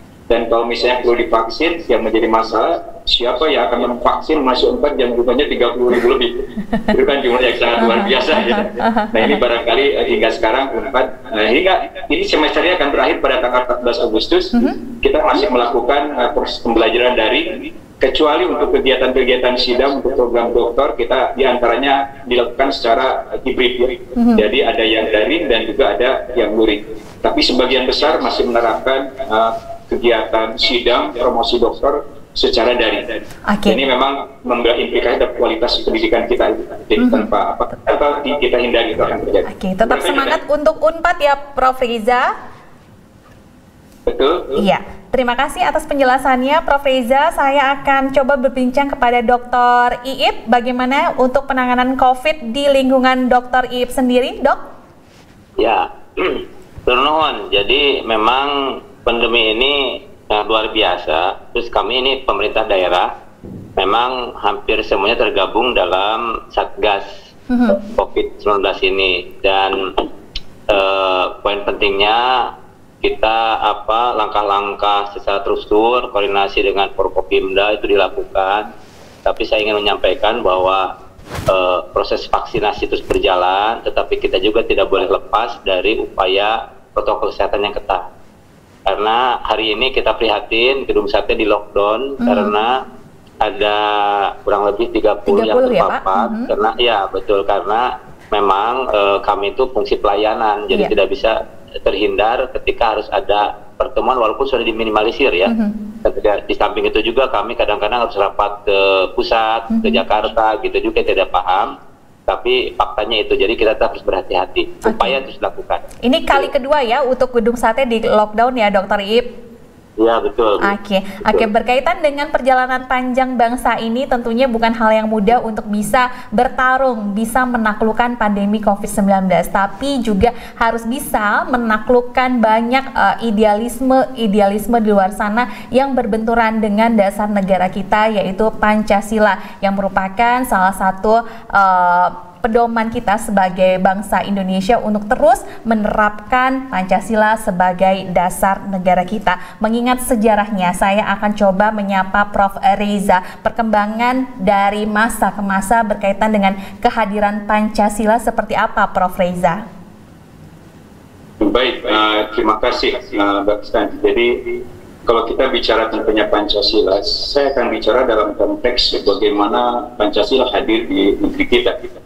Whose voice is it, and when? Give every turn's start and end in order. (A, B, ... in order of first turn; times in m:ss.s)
0:00.3-0:40.4 A
0:07.8-0:09.2 B
0:24.2-0:24.4 B
0:33.5-0:33.8 B
0:37.0-0:37.3 B
0:39.4-0:42.3 B
0:44.1-0:44.6 A
0:44.6-0:54.6 B
0:55.6-1:03.1 C
1:03.8-1:07.2 C
1:07.5-1:07.8 B
1:07.7-1:10.1 C
1:10.7-1:18.7 C
1:19.2-1:20.9 C
1:21.5-1:28.1 C
1:28.8-1:32.8 C
1:32.2-1:32.5 B
1:33.4-1:45.5 C
1:35.3-1:36.5 B
1:45.5-1:45.8 B
1:46.0-1:56.4 C
1:49.7-1:50.0 B
1:54.8-1:55.2 B
1:56.0-1:59.3 B
2:00.0-2:00.7 C
2:00.6-2:39.6 B
2:41.4-2:51.9 A